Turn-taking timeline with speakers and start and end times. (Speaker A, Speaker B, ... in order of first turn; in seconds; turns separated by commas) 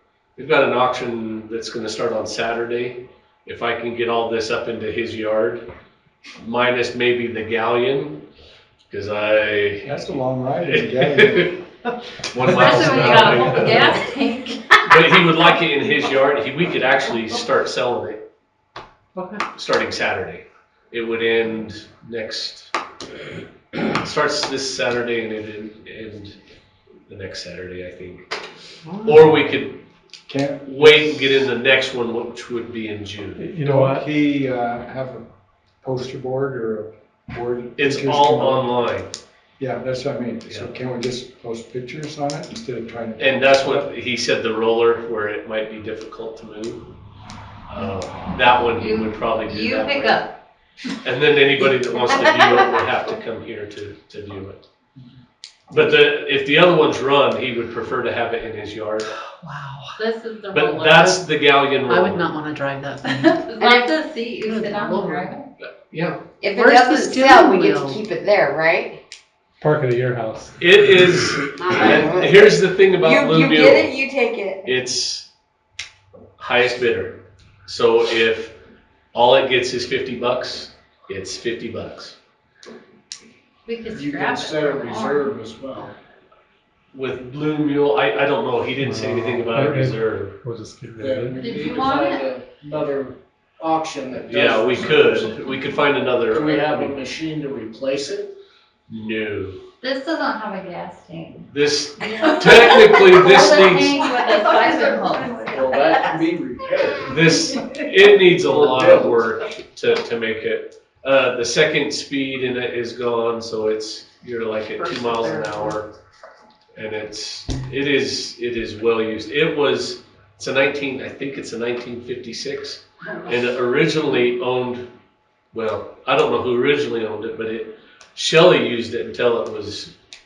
Speaker A: 0.3-5.6, Speaker A: 6.4-8.2, Speaker A: 8.9-10.0, Speaker B: 9.8-11.6, Speaker A: 10.7-11.5, Speaker A: 12.2-14.0, Speaker B: 12.4-13.7, Speaker C: 12.4-14.8, Speaker A: 14.9-18.2, Speaker D: 19.2-19.4, Speaker A: 19.5-22.7, Speaker A: 23.8-26.4, Speaker A: 27.1-28.3, Speaker D: 28.9-29.3, Speaker A: 29.0-29.8, Speaker B: 30.3-31.5, Speaker A: 30.7-33.5, Speaker E: 33.4-34.1, Speaker B: 33.6-35.3, Speaker B: 35.8-38.7, Speaker A: 37.8-39.1, Speaker B: 39.6-43.9, Speaker A: 43.2-46.9, Speaker A: 47.7-50.2, Speaker C: 48.6-50.3, Speaker A: 51.0-54.6, Speaker A: 55.7-59.1, Speaker D: 59.4-59.9, Speaker C: 60.0-61.2, Speaker A: 60.5-62.3, Speaker D: 61.9-63.5, Speaker C: 63.1-65.5, Speaker F: 63.6-63.9, Speaker D: 64.5-65.3, Speaker A: 65.8-66.2, Speaker F: 66.4-69.0, Speaker D: 66.5-68.0, Speaker E: 69.6-71.3, Speaker A: 70.6-73.9, Speaker F: 71.5-74.6, Speaker A: 74.6-75.3, Speaker A: 76.4-78.5, Speaker A: 79.1-82.2, Speaker C: 83.7-85.3, Speaker G: 83.9-85.9, Speaker A: 86.9-90.3, Speaker E: 88.8-91.4, Speaker G: 91.0-95.3, Speaker C: 91.4-92.3, Speaker A: 94.2-97.0, Speaker G: 96.3-98.3, Speaker A: 98.9-99.6, Speaker C: 99.8-101.5, Speaker A: 101.5-104.0, Speaker C: 102.0-105.4, Speaker F: 104.2-105.9, Speaker G: 105.5-107.5, Speaker A: 107.0-115.9, Speaker G: 108.5-109.2, Speaker F: 114.8-115.6, Speaker A: 116.8-124.8, Speaker A: 125.5-129.9